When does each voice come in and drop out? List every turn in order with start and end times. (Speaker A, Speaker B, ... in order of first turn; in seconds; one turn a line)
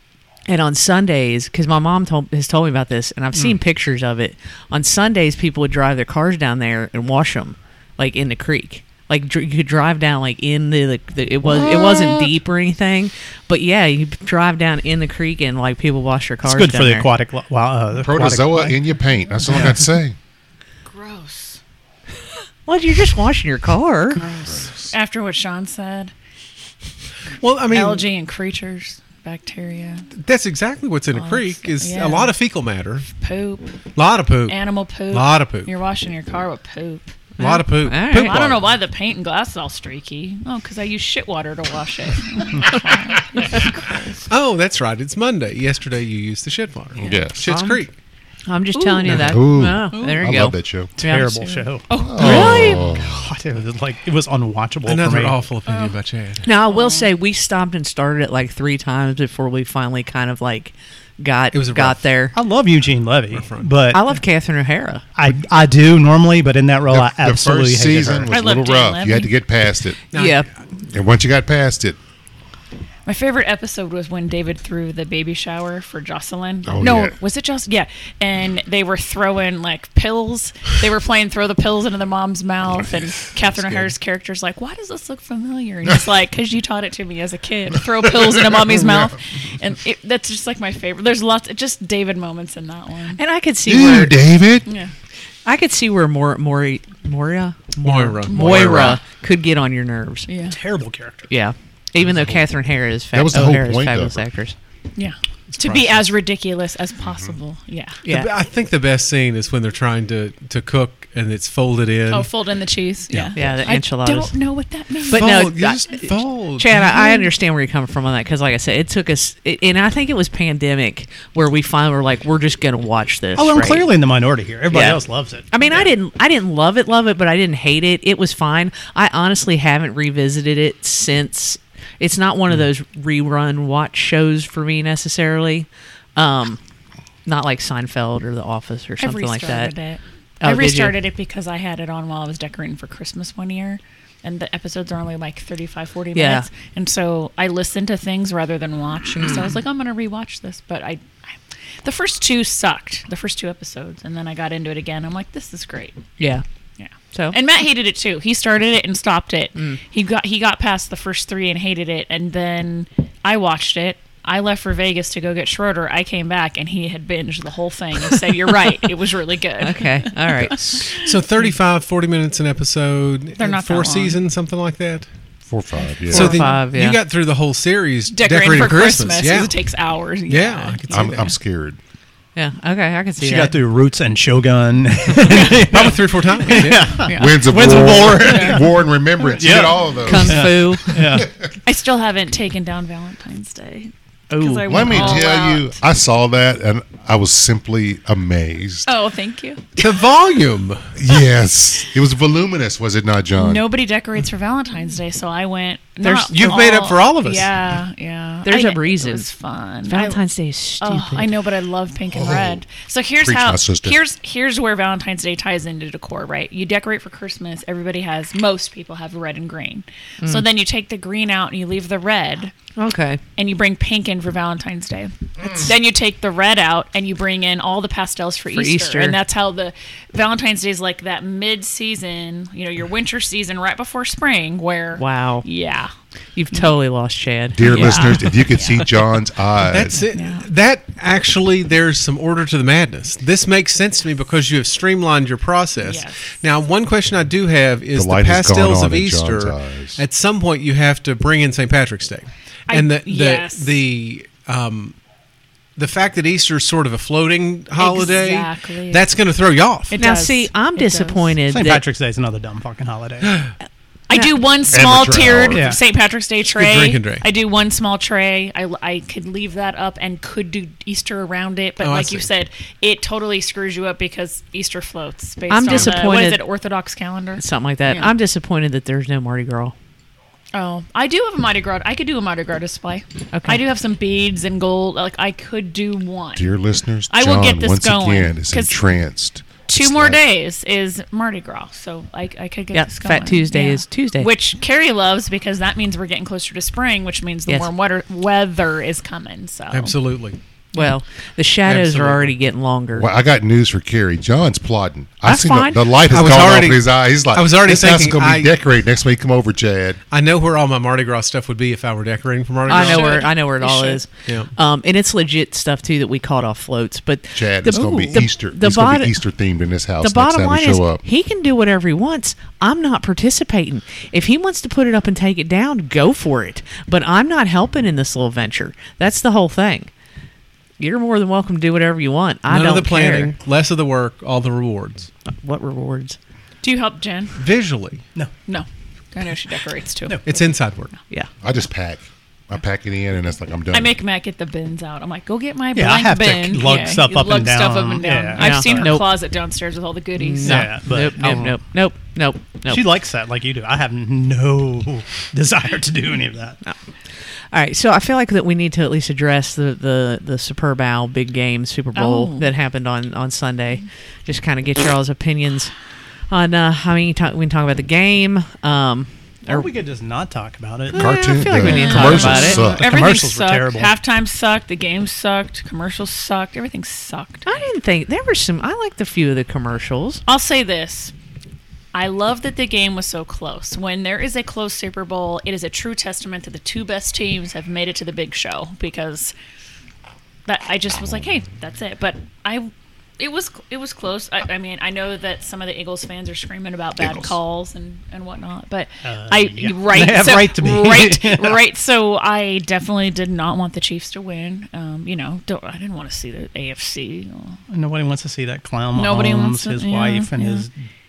Speaker A: 0.5-17.1
Speaker B: 11.6-12.2
Speaker B: 16.4-18.8
Speaker C: 17.9-20.1
Speaker B: 19.4-19.8
Speaker D: 20.9-21.6
Speaker A: 22.7-24.2
Speaker D: 24.1-26.1
Speaker C: 24.4-24.9
Speaker E: 27.4-28.1
Speaker D: 27.7-30.1
Speaker E: 30.2-33.1
Speaker D: 31.1-32.4
Speaker D: 33.1-33.7
Speaker E: 33.9-34.6
Speaker D: 34.5-44.3
Speaker E: 35.1-35.7
Speaker E: 37.4-38.7
Speaker A: 37.4-38.4
Speaker E: 44.3-47.9
Speaker C: 47.0-47.4
Speaker A: 47.4-47.9
Speaker A: 48.5-52.8
Speaker D: 48.7-50.4
Speaker C: 49.1-50.9
Speaker B: 51.0-55.4
Speaker D: 51.5-52.8
Speaker C: 52.0-53.3
Speaker E: 54.9-56.5
Speaker D: 55.7-56.0
Speaker A: 56.4-62.3
Speaker D: 56.6-57.1
Speaker E: 61.5-62.0
Speaker B: 62.3-64.1
Speaker E: 63.3-63.7
Speaker A: 63.9-65.0
Speaker B: 65.2-68.3
Speaker C: 66.9-70.0
Speaker D: 68.3-69.3
Speaker E: 70.1-70.4
Speaker A: 70.1-70.5
Speaker C: 70.9-72.0
Speaker D: 73.0-93.2
Speaker C: 76.7-77.2
Speaker C: 88.0-89.2
Speaker A: 93.2-94.2
Speaker C: 93.7-94.7
Speaker D: 94.7-94.9
Speaker A: 95.4-100.3
Speaker E: 97.8-99.0
Speaker D: 98.3-99.0
Speaker D: 100.3-100.6
Speaker B: 100.4-101.3
Speaker A: 101.3-104.5
Speaker C: 102.0-102.5
Speaker C: 103.1-104.2
Speaker D: 105.0-108.0
Speaker E: 105.6-105.9
Speaker C: 107.0-107.3
Speaker A: 108.0-108.3
Speaker E: 108.0-112.3
Speaker D: 112.1-115.5
Speaker A: 113.3-114.3
Speaker A: 115.1-123.9
Speaker E: 115.1-117.2
Speaker B: 123.3-125.9
Speaker A: 124.7-136.6
Speaker A: 137.2-139.7
Speaker D: 139.0-156.0
Speaker A: 140.4-140.9
Speaker A: 146.1-146.5
Speaker A: 149.2-149.5
Speaker A: 156.2-156.4
Speaker D: 156.8-171.2
Speaker A: 169.6-171.0
Speaker E: 170.9-175.1
Speaker D: 173.4-174.2
Speaker C: 175.5-176.4
Speaker D: 176.1-176.5
Speaker E: 176.1-179.6
Speaker A: 176.1-177.0
Speaker D: 178.1-181.2
Speaker E: 180.3-181.3
Speaker C: 180.9-181.8
Speaker A: 182.3-183.6
Speaker B: 183.2-191.3
Speaker E: 185.2-187.0
Speaker D: 187.0-188.6
Speaker C: 187.1-191.5
Speaker A: 190.1-191.2
Speaker D: 191.6-195.8
Speaker A: 194.3-195.2
Speaker C: 194.7-198.9
Speaker D: 198.8-199.6
Speaker E: 199.8-200.9
Speaker C: 200.9-203.6
Speaker D: 203.3-210.2
Speaker E: 206.0-207.5
Speaker A: 208.4-209.3
Speaker A: 209.8-211.3
Speaker D: 210.8-222.5
Speaker C: 212.1-212.6
Speaker C: 213.2-214.0
Speaker A: 222.8-223.2
Speaker D: 223.3-235.9
Speaker C: 225.4-225.7
Speaker A: 228.5-229.2
Speaker A: 234.9-235.4
Speaker A: 236.3-238.2
Speaker C: 237.5-240.0
Speaker D: 237.6-238.8
Speaker E: 239.7-254.9
Speaker D: 240.0-240.4
Speaker D: 245.8-246.3
Speaker C: 247.9-250.0
Speaker D: 252.7-253.8
Speaker E: 255.8-260.0
Speaker D: 257.8-259.0
Speaker D: 259.9-261.3
Speaker A: 260.0-261.8
Speaker B: 261.5-263.3
Speaker E: 263.2-263.5
Speaker D: 264.1-278.1
Speaker C: 264.7-265.7
Speaker B: 265.5-265.8
Speaker E: 266.5-267.2
Speaker E: 271.8-272.3
Speaker A: 275.5-276.4
Speaker E: 275.7-275.9
Speaker A: 277.4-279.7
Speaker D: 280.5-286.5
Speaker A: 283.3-283.6
Speaker C: 286.3-290.2
Speaker D: 287.1-288.8
Speaker D: 289.7-299.9
Speaker A: 292.7-294.3
Speaker E: 299.7-300.4
Speaker A: 300.7-303.1
Speaker E: 301.6-302.3
Speaker C: 302.9-310.0
Speaker A: 305.2-305.9
Speaker E: 306.1-308.5
Speaker E: 310.1-313.2
Speaker D: 312.7-314.0
Speaker A: 312.7-319.2
Speaker E: 314.2-314.5
Speaker C: 317.3-321.0
Speaker A: 320.0-329.9
Speaker A: 330.8-333.3
Speaker E: 332.5-335.1
Speaker A: 335.3-336.2
Speaker D: 336.6-337.4
Speaker E: 337.4-338.0
Speaker D: 338.5-340.2
Speaker E: 340.2-340.9
Speaker C: 341.4-343.9
Speaker D: 343.7-350.8
Speaker B: 345.7-348.9
Speaker A: 348.4-349.1
Speaker A: 350.1-352.8
Speaker B: 350.4-351.6
Speaker B: 352.7-356.6
Speaker A: 357.5-365.7
Speaker D: 361.9-362.5
Speaker A: 366.3-369.7
Speaker B: 369.5-373.9
Speaker A: 370.9-372.6
Speaker C: 370.9-372.9
Speaker D: 371.6-377.5
Speaker A: 377.4-380.2
Speaker D: 380.3-381.1
Speaker D: 381.9-389.3
Speaker D: 390.4-407.6
Speaker C: 397.0-397.3
Speaker B: 399.0-401.6
Speaker B: 407.7-410.7
Speaker D: 408.9-410.6